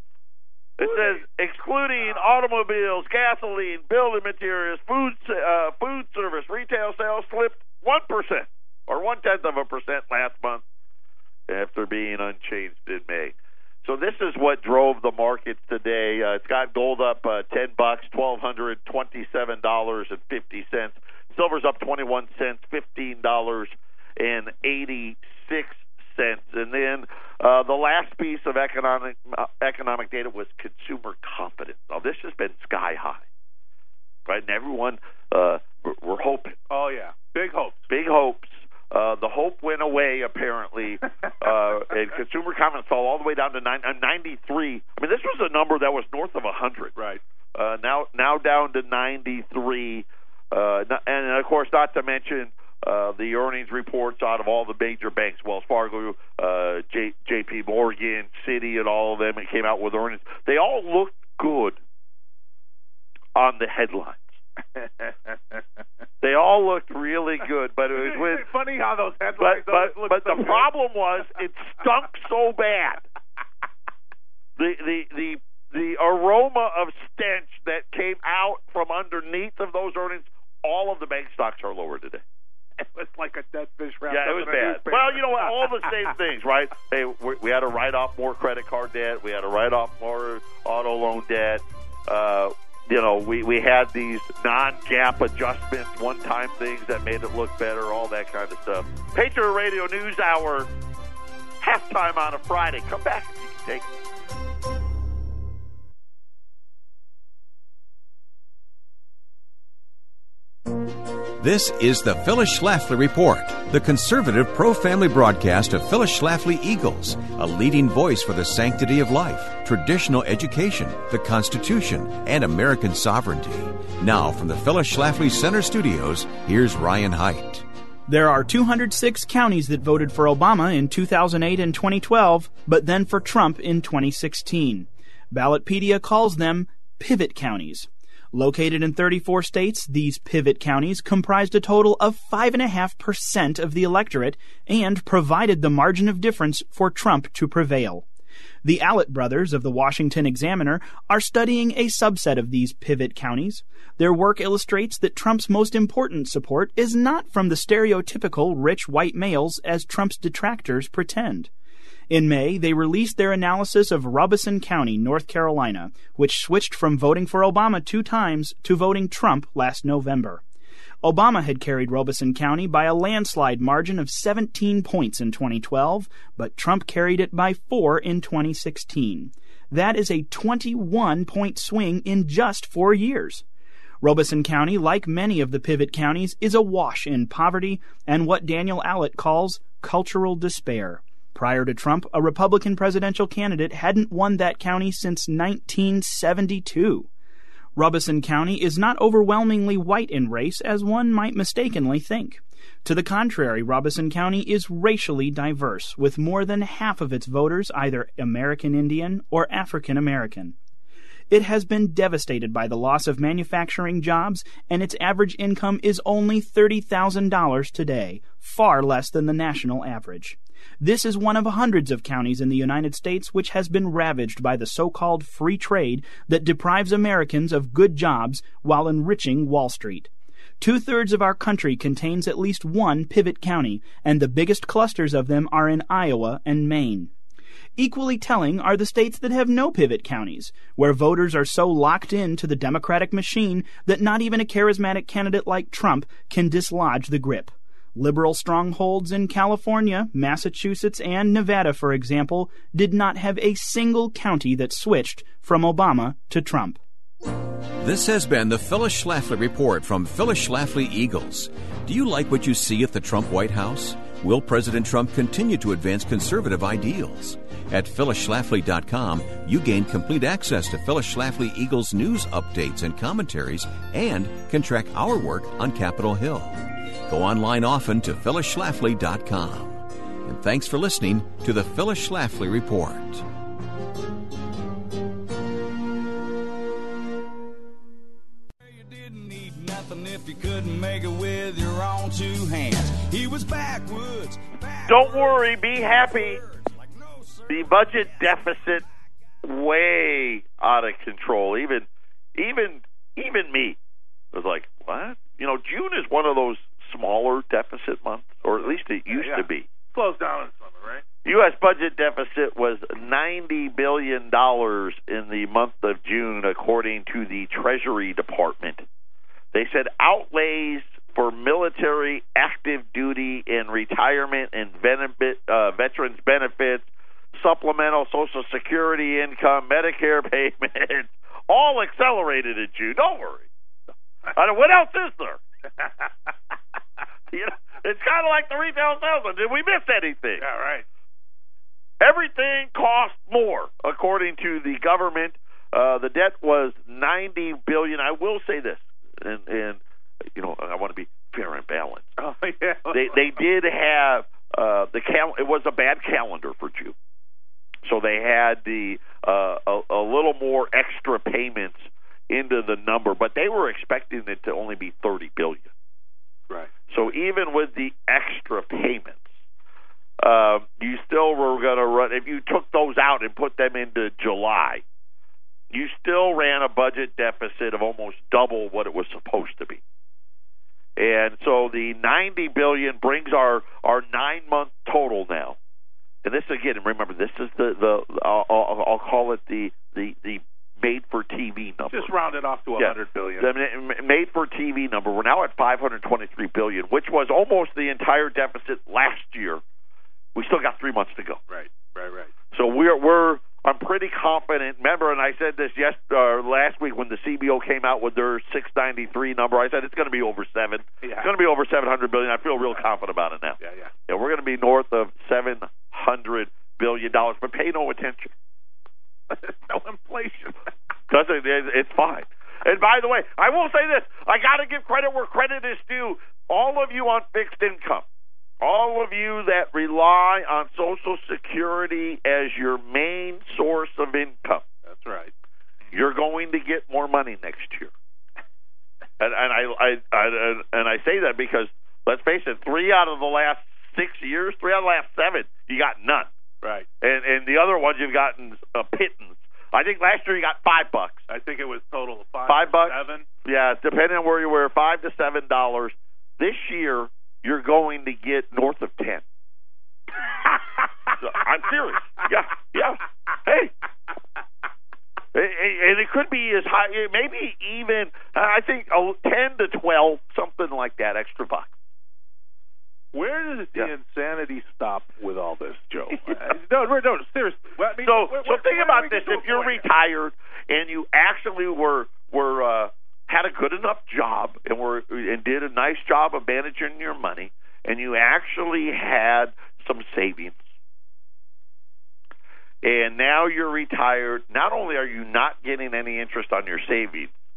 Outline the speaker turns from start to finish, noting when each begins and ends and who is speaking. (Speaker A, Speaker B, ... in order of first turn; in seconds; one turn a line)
Speaker A: 0.8-10.6
Speaker B: 0.8-1.2
Speaker B: 2.0-2.3
Speaker A: 11.5-33.2
Speaker A: 34.3-36.6
Speaker B: 36.7-37.9
Speaker A: 37.9-46.9
Speaker B: 47.0-47.2
Speaker A: 47.5-61.8
Speaker A: 63.3-64.3
Speaker B: 64.8-65.6
Speaker A: 66.2-68.5
Speaker B: 67.9-70.7
Speaker A: 69.4-73.0
Speaker A: 74.6-82.2
Speaker B: 82.8-86.1
Speaker A: 84.1-100.7
Speaker A: 101.6-103.9
Speaker C: 111.4-127.6
Speaker D: 128.1-148.1
Speaker D: 148.6-161.5
Speaker D: 162.1-170.4
Speaker D: 171.0-183.4
Speaker D: 184.0-197.1
Speaker D: 197.8-210.5
Speaker D: 211.3-237.1
Speaker D: 237.8-256.8
Speaker C: 257.8-283.2
Speaker E: 288.6-295.4
Speaker A: 294.9-296.4
Speaker E: 296.0-297.6
Speaker A: 297.5-298.8
Speaker A: 299.4-303.8
Speaker A: 304.3-309.6
Speaker B: 308.6-311.0
Speaker A: 311.2-318.8
Speaker A: 319.5-333.5
Speaker A: 334.3-335.4
Speaker B: 335.8-336.1
Speaker A: 337.3-340.4
Speaker B: 340.4-340.9
Speaker A: 342.0-349.8
Speaker A: 350.3-352.1
Speaker B: 352.2-353.3
Speaker A: 352.9-356.9
Speaker A: 357.8-365.7
Speaker A: 366.9-369.2
Speaker A: 370.2-374.8
Speaker A: 375.7-379.8
Speaker A: 381.0-385.6
Speaker A: 386.2-392.1
Speaker B: 391.9-393.5
Speaker A: 392.8-399.6
Speaker A: 400.3-401.4
Speaker B: 401.5-402.3
Speaker A: 402.5-418.3
Speaker B: 411.0-411.3
Speaker B: 413.6-413.9
Speaker B: 419.3-420.7
Speaker A: 421.1-428.1
Speaker A: 428.6-434.6
Speaker B: 434.8-435.3
Speaker A: 435.9-437.9
Speaker A: 439.2-446.3
Speaker B: 446.6-446.9
Speaker A: 447.0-451.2
Speaker B: 451.3-453.2
Speaker A: 452.5-459.2
Speaker A: 461.2-463.7
Speaker A: 465.3-471.7
Speaker B: 473.1-479.9
Speaker A: 478.0-490.6
Speaker A: 492.8-497.3